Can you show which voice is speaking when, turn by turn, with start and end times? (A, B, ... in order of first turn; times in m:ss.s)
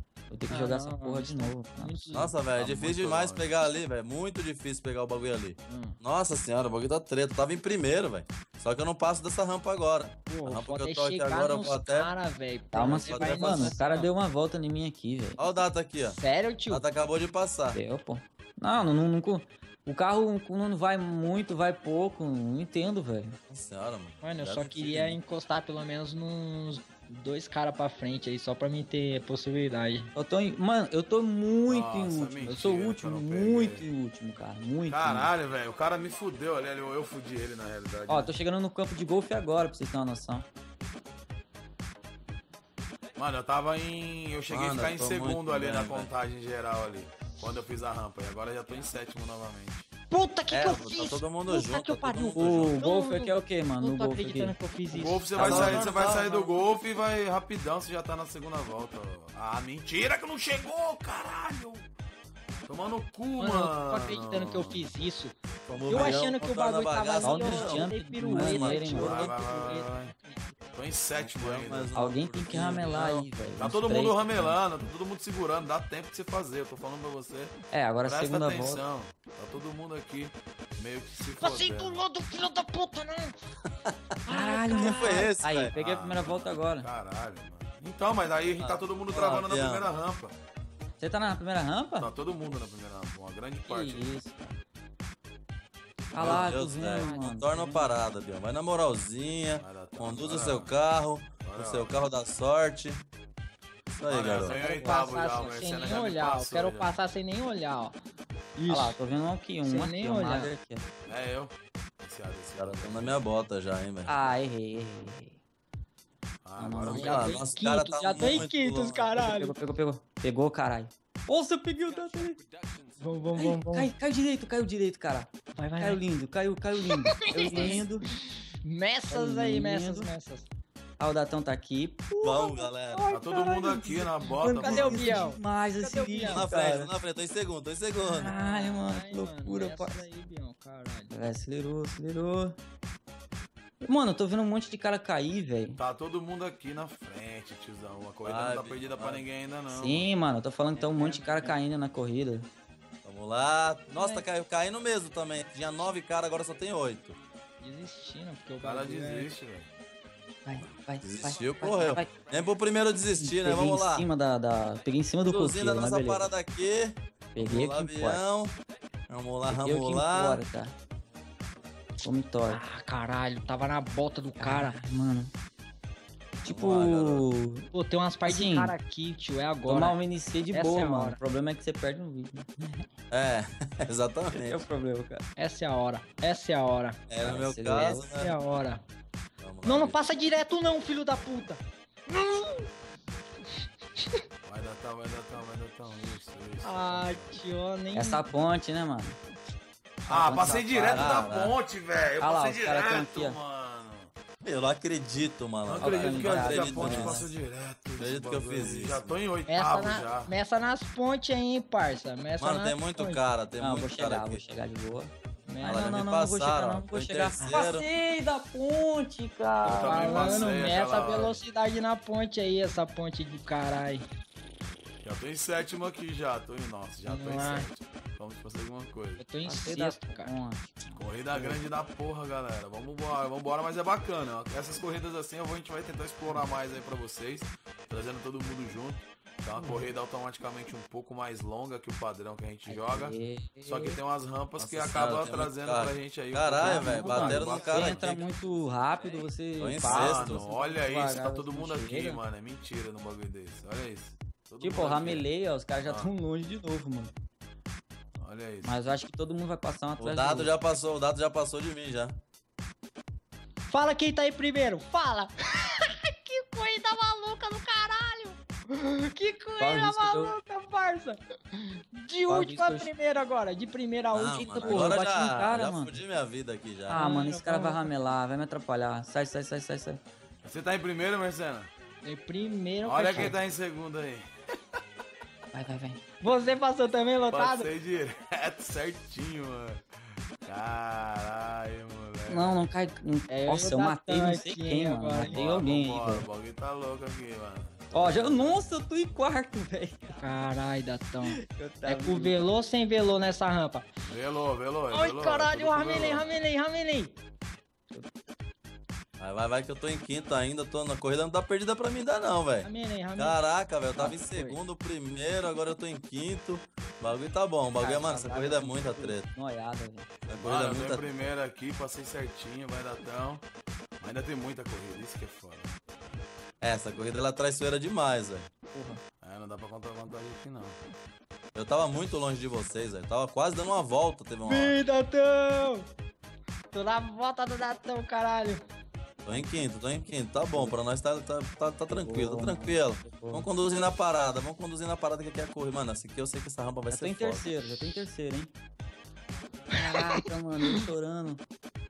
0:00.3-0:02.1 A
0:00.5-0:02.4 B
0:02.1-0:12.1 C
0:02.5-0:03.6 D
0:05.7-0:06.0 B
0:10.3-0:14.1 B
0:12.7-0:15.4 A
0:12.8-0:13.8 C
0:15.4-0:16.2 C
0:16.0-0:16.8 B
0:16.7-0:17.8 C
0:17.7-0:23.4 A
0:23.5-0:25.2 C
0:24.2-0:30.1 B
0:30.1-0:35.3 A
0:31.6-0:33.8 D
0:34.9-0:38.3 D
0:38.1-0:40.4 A
0:43.2-0:49.8 D
0:44.5-0:46.1 C
0:50.1-0:56.7 B
0:50.5-0:52.8 C
0:52.4-0:54.5 A
0:54.9-1:01.9 D
0:55.3-0:56.2 C
1:02.6-1:04.9 D
1:03.4-1:05.4 B
1:05.7-1:08.8 C
1:05.9-1:10.6 B
1:07.2-1:09.3 A
1:08.9-1:10.1 D
1:10.7-1:11.9 D
1:11.2-1:13.3 C
1:11.9-1:14.6 A
1:13.6-1:22.0 D
1:17.7-1:18.8 A
1:21.4-1:23.4 B
1:24.2-1:25.3 B
1:24.3-1:26.9 A
1:24.7-1:25.7 C
1:25.7-1:30.3 D
1:28.6-1:29.8 C
1:31.0-1:32.1 A
1:32.0-1:34.1 D
1:33.6-1:34.6 A
1:36.1-1:38.0 A
1:36.1-1:43.0 C
1:36.2-1:36.5 D
1:36.8-1:37.2 B
1:39.6-1:40.7 D
1:41.4-1:42.0 D
1:43.9-1:44.6 C
1:44.0-1:46.9 D
1:44.4-1:48.0 B
1:44.5-1:44.9 A
1:48.6-1:49.0 B
1:48.7-1:50.8 A
1:49.6-1:50.5 B
1:51.1-1:53.2 D
1:52.6-1:54.3 C
1:54.1-1:55.4 A
1:56.4-1:57.3 D
1:56.6-1:57.4 A
1:56.8-1:59.1 C
1:56.9-1:59.5 B
1:58.2-1:58.4 A
1:59.2-2:02.4 A
2:03.0-2:03.9 B
2:03.3-2:08.1 A
2:05.5-2:06.0 B
2:07.2-2:07.8 B
2:07.3-2:07.6 C
2:08.6-2:10.5 B
2:09.1-2:10.1 A
2:11.0-2:12.5 A
2:12.2-2:13.0 C
2:12.9-2:16.4 B
2:13.1-2:15.3 D
2:14.3-2:16.9 A
2:16.2-2:18.3 C
2:18.1-2:20.0 A
2:18.2-2:21.1 B
2:21.1-2:22.6 A
2:23.8-2:25.8 A
2:25.8-2:30.1 D
2:28.2-2:29.2 C
2:29.7-2:32.5 A
2:30.7-2:31.6 B
2:33.0-2:37.2 C
2:34.0-2:34.2 B
2:37.6-2:39.3 B
2:38.6-2:39.7 D
2:40.4-2:42.1 A
2:41.0-2:44.1 C
2:43.1-2:46.3 A
2:45.2-2:48.6 C
2:47.3-2:48.2 A
2:49.1-2:50.4 C
2:49.4-2:50.7 A
2:52.0-2:52.6 A
2:52.5-2:54.8 B
2:54.4-2:55.3 A
2:56.4-2:57.7 A
2:56.5-2:57.2 C
2:57.7-3:00.0 B
2:58.2-2:58.7 A
2:59.6-3:02.8 A
3:00.5-3:01.2 B
3:03.1-3:04.6 C
3:04.3-3:05.2 A
3:05.4-3:07.0 B
3:07.1-3:08.4 C
3:07.2-3:08.1 A
3:08.2-3:08.8 B
3:09.4-3:10.0 C
3:09.6-3:12.6 B
3:14.4-3:17.4 D
3:16.6-3:18.3 B
3:17.9-3:19.2 A
3:20.0-3:21.4 A
3:20.1-3:24.1 D
3:20.9-3:21.6 C
3:22.2-3:23.4 A
3:24.4-3:27.3 C
3:25.6-3:30.3 D
3:25.8-3:27.3 A
3:28.0-3:29.1 C
3:29.5-3:33.2 B
3:32.4-3:34.4 C
3:33.6-3:40.5 A
3:35.4-3:36.0 B
3:35.6-3:37.8 C
3:37.4-3:37.7 B
3:39.6-3:41.4 D
3:39.7-3:44.0 B
3:45.0-3:49.2 D
3:47.0-3:47.7 B
3:49.2-3:50.3 B
3:49.4-3:51.0 A
3:51.0-4:08.1 D
4:02.7-4:04.0 A
4:04.6-4:08.2 C
4:06.6-4:12.2 A
4:09.6-4:10.4 C
4:09.8-4:15.3 D
4:14.6-4:17.1 A
4:15.8-4:16.1 D
4:18.2-4:18.8 D
4:18.6-4:20.5 A
4:20.0-4:22.2 C
4:23.7-4:35.0 B
4:29.6-4:30.3 A
4:32.3-4:32.9 A
4:34.1-4:37.0 C
4:34.6-4:36.0 A
4:36.9-4:40.0 A
4:36.9-4:37.9 B
4:40.4-4:41.7 D
4:42.0-4:43.4 B
4:42.8-4:44.2 D
4:45.5-4:46.0 A
4:46.2-4:47.7 B
4:47.3-4:49.8 D
4:50.4-4:52.6 D
4:52.3-4:56.2 A
4:53.3-4:55.6 B
4:55.2-4:58.7 D
4:57.9-5:00.2 A
5:00.2-5:03.8 B
5:01.2-5:02.4 A
5:04.0-5:06.3 D
5:04.9-5:07.2 B
5:09.2-5:19.3 C
5:12.6-5:13.4 B
5:14.0-5:14.6 B
5:17.8-5:20.1 A
5:20.3-5:21.0 C
5:20.4-5:23.4 D
5:24.0-5:25.7 D
5:26.6-5:28.5 C
5:28.7-5:29.0 A
5:29.2-5:30.8 D
5:31.5-5:34.8 C
5:34.4-5:35.8 B
5:36.7-5:38.6 B
5:39.2-5:47.5 C
5:41.9-5:43.5 A
5:46.9-5:48.5 A
5:49.7-5:51.4 A
5:49.8-5:50.8 B